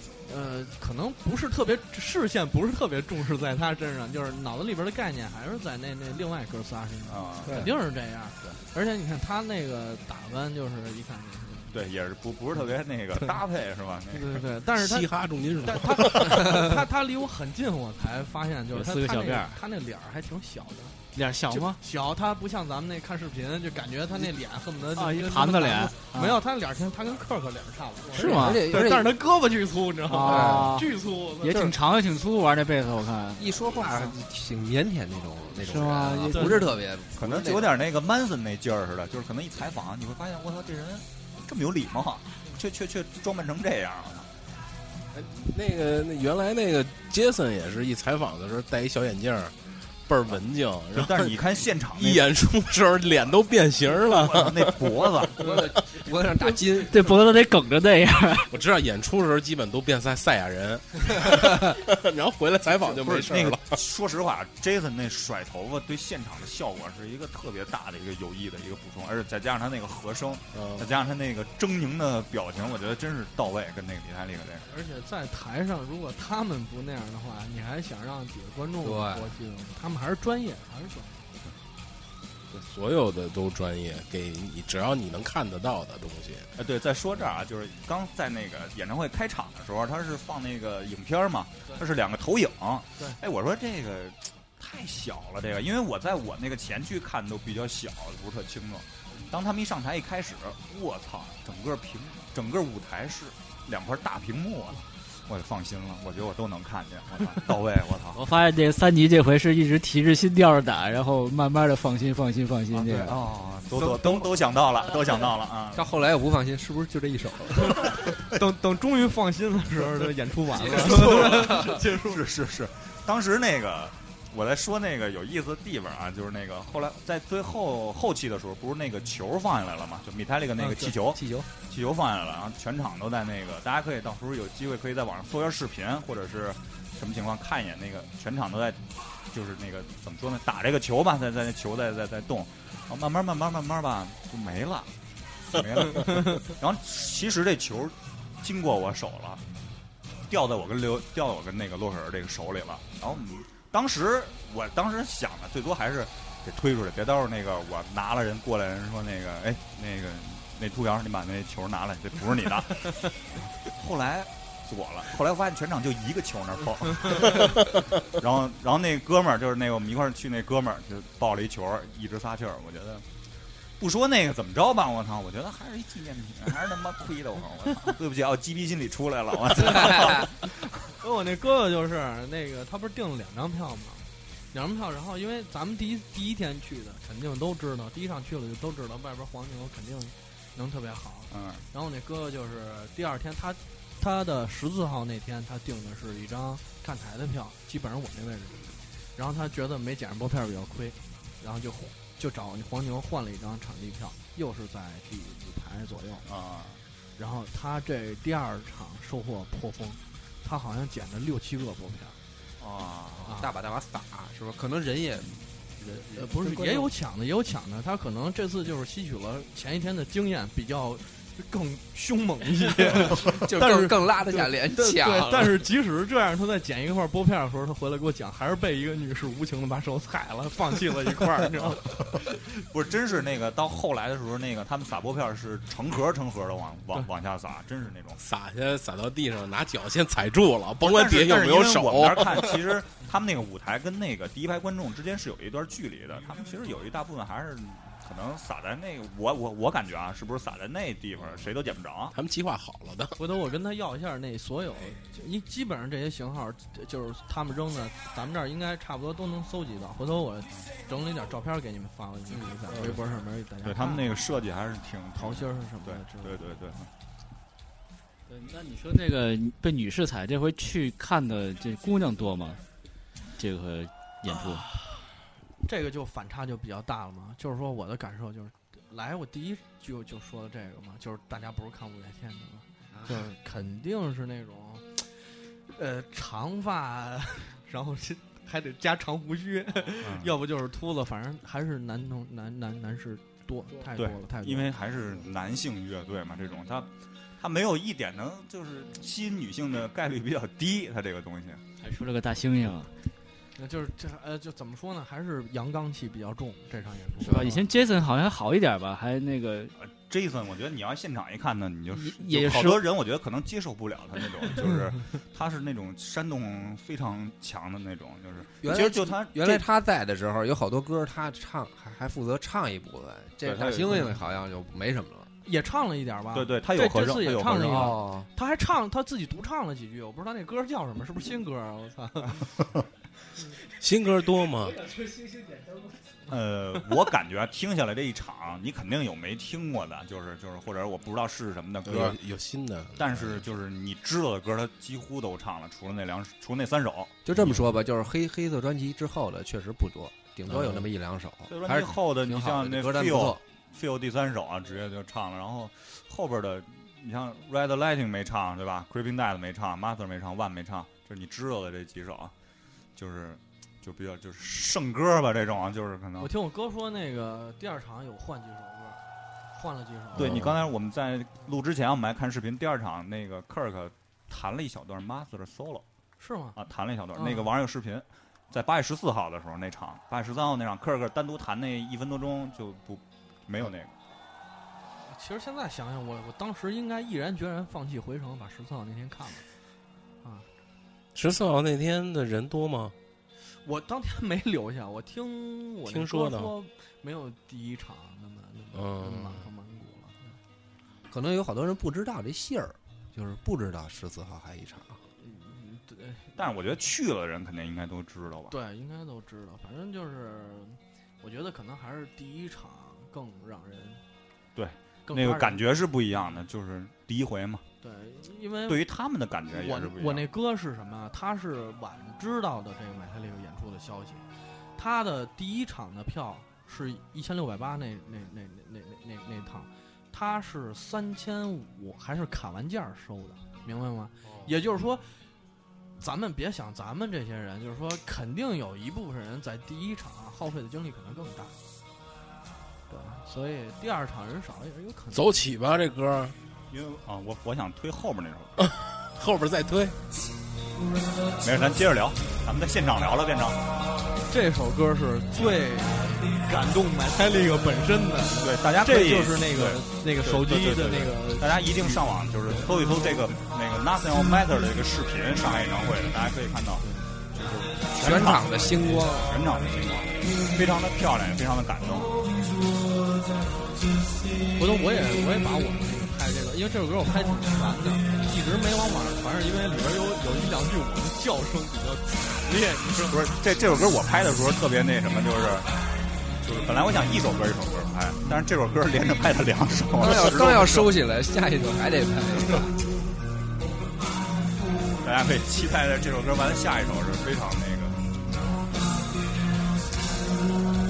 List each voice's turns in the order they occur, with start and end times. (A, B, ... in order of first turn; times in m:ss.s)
0:00.2-0:11.7 A
0:07.1-0:07.6 B
0:11.7-0:14.4 B
0:14.1-0:15.1 A
0:14.8-0:16.7 C
0:15.6-0:21.0 A
0:18.7-0:19.6 D
0:21.1-0:21.8 D
0:21.5-0:31.7 A
0:25.0-0:26.4 D
0:28.1-0:28.7 D
0:28.2-0:29.1 E
0:30.1-0:33.5 D
0:30.2-0:30.8 E
0:33.4-0:37.8 E
0:35.6-0:36.7 D
0:36.3-0:36.6 A
0:37.2-0:44.3 B
0:45.1-0:55.1 C
0:51.0-0:52.3 B
0:54.1-0:55.5 B
0:55.3-0:57.1 E
0:56.8-0:58.5 D
0:58.5-1:03.8 C
1:02.9-1:14.7 B
1:10.5-1:10.9 C
1:14.6-1:21.2 A
1:18.8-1:19.3 E
1:22.5-1:26.5 C
1:26.6-1:48.2 B
1:48.1-1:53.2 D
1:52.7-1:55.9 B
1:54.0-1:54.2 E
1:55.8-1:58.0 E
1:57.8-2:02.2 A
2:00.8-2:24.9 B
2:00.8-2:01.4 E
2:10.6-2:11.5 E
2:25.5-2:29.4 B
2:30.3-2:53.0 B
2:53.8-3:00.7 B
2:59.7-3:00.3 E
3:01.0-3:26.3 A
3:11.3-3:11.6 B
3:26.3-3:26.8 B
3:27.2-3:32.2 A
3:32.6-3:33.4 B
3:33.2-3:33.5 A
3:33.3-3:36.9 E
3:36.1-3:52.2 A
3:43.0-3:45.7 E
3:51.6-3:58.2 B
3:58.2-4:02.6 C
4:00.8-4:12.2 B
4:12.1-4:13.2 C
4:13.2-4:24.1 A
4:22.7-4:23.0 C
4:23.6-4:26.9 B
4:25.2-4:26.6 A
4:28.3-4:32.6 D
4:33.4-4:34.7 D
4:34.4-4:54.8 A
4:50.0-4:50.3 B
4:54.0-5:01.6 B
5:01.8-5:02.9 D
5:03.6-5:07.6 A
5:07.2-5:09.7 D
5:09.8-5:19.7 B
5:11.9-5:12.9 D
5:18.6-5:25.3 E
5:23.4-5:24.2 B
5:25.4-5:32.5 A
5:26.3-5:28.0 B
5:27.6-5:28.3 E
5:33.7-5:34.9 C
5:35.1-5:35.5 D
5:36.3-5:42.2 B
5:41.8-5:43.4 C
5:43.0-5:47.6 B
5:47.3-5:53.4 E
5:50.5-5:50.9 C
5:51.5-6:02.3 B
6:03.0-6:06.3 B
6:06.2-6:09.0 A
6:09.5-6:10.4 A
6:10.2-6:15.8 B
6:10.2-6:10.5 C
6:16.2-6:16.6 A
6:16.6-6:23.9 B
6:17.2-6:17.5 A
6:25.0-6:29.5 A
6:31.2-6:33.0 C
6:33.6-6:40.4 A
6:35.9-6:36.5 C
6:38.7-6:39.5 C
6:41.1-6:45.0 E
6:45.2-6:46.4 A
6:46.4-6:48.6 B
6:48.5-6:54.0 A
6:54.6-6:57.6 B
6:55.1-6:55.6 A
6:57.8-6:58.8 A
6:58.7-7:00.3 B
6:59.5-7:15.2 A
7:16.0-7:21.6 A
7:22.9-7:25.3 A
7:25.1-7:26.4 C
7:26.7-7:28.6 B
7:28.6-7:30.0 C
7:31.4-7:33.6 B
7:34.3-7:42.0 A
7:38.4-7:52.2 B
7:48.0-7:49.4 E
7:54.6-8:03.2 A
8:03.1-8:05.7 B
8:06.4-8:11.0 B
8:10.0-8:12.8 E
8:15.0-8:18.1 B